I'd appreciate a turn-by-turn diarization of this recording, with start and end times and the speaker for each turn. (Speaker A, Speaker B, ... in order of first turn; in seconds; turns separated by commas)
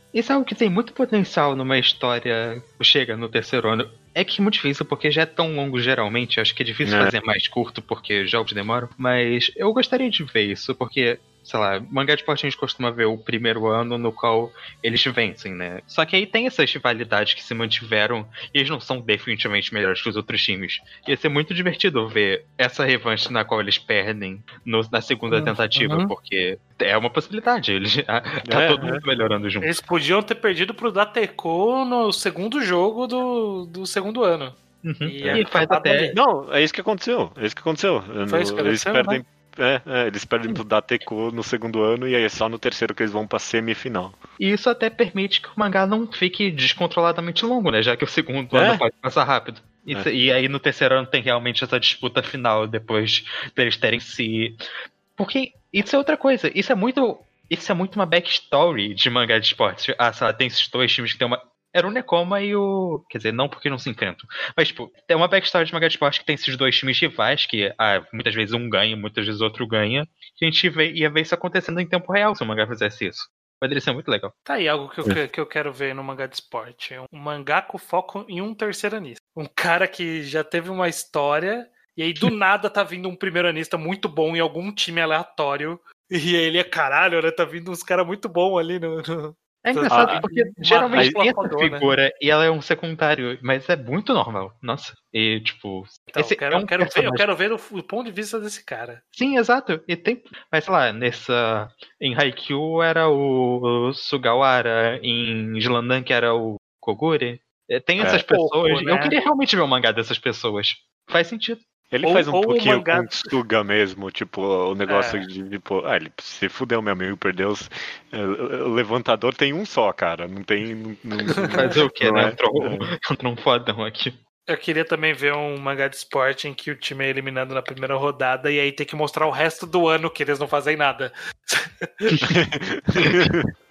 Speaker A: 0.1-29.7, Speaker B: 6.8-7.1, Speaker C: 25.3-26.1, Speaker B: 28.4-29.0, Speaker C: 29.6-36.2, Speaker A: 34.8-36.1, Speaker B: 36.1-44.2, Speaker C: 38.3-39.2, Speaker A: 44.4-54.6, Speaker B: 48.5-48.8, Speaker A: 55.2-74.3, Speaker C: 74.5-91.9, Speaker A: 89.6-97.2, Speaker B: 89.9-90.2, Speaker C: 96.1-99.0, Speaker A: 99.1-111.6, Speaker B: 108.0-108.2, Speaker C: 108.2-109.2, Speaker B: 111.9-122.9, Speaker C: 112.0-113.3, Speaker C: 114.9-115.3, Speaker C: 121.4-121.7, Speaker A: 121.5-124.2, Speaker C: 124.5-132.2, Speaker B: 132.2-133.5, Speaker A: 133.0-133.3